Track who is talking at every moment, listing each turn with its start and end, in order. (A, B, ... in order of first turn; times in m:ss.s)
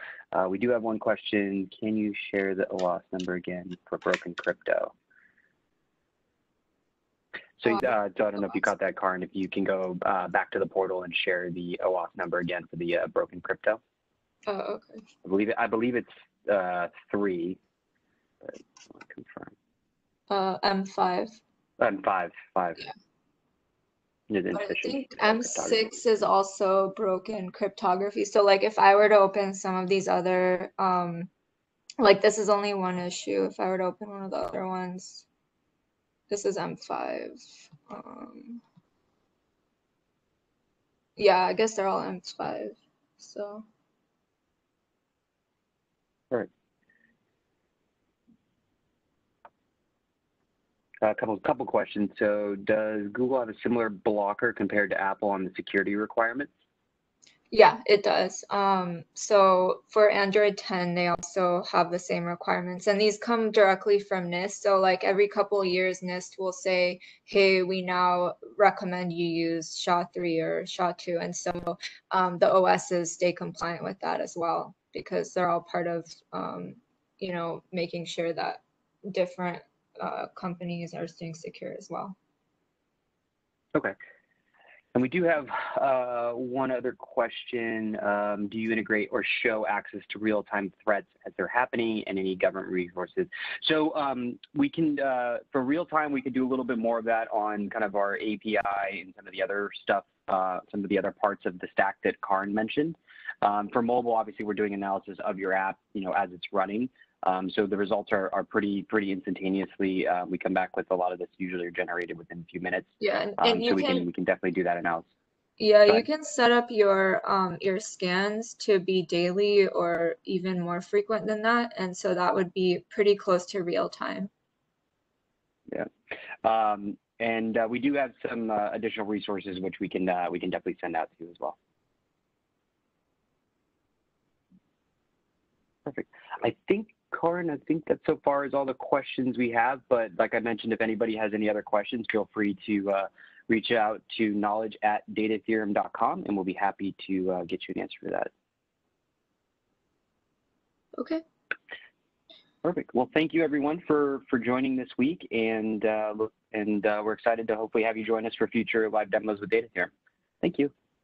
0:00.3-0:04.9 A
0:07.6-0:13.8 A
0:14.5-0:15.0 B
0:15.2-0:17.6 A
0:18.4-0:19.5 A
0:20.3-0:21.4 B
0:21.8-0:22.8 A
0:24.3-0:26.0 A
0:24.5-0:31.3 B
0:32.0-0:35.3 B
0:36.3-0:38.6 B
0:41.2-0:43.6 B
0:51.0-0:56.5 A
0:57.5-1:22.2 B
1:24.9-1:55.1 A
1:53.0-1:54.1 B
1:55.6-2:04.3 B
2:06.4-2:11.6 A
2:15.9-2:28.3 A
2:31.0-2:31.2 B
2:32.6-2:39.9 A
2:40.4-2:40.7 A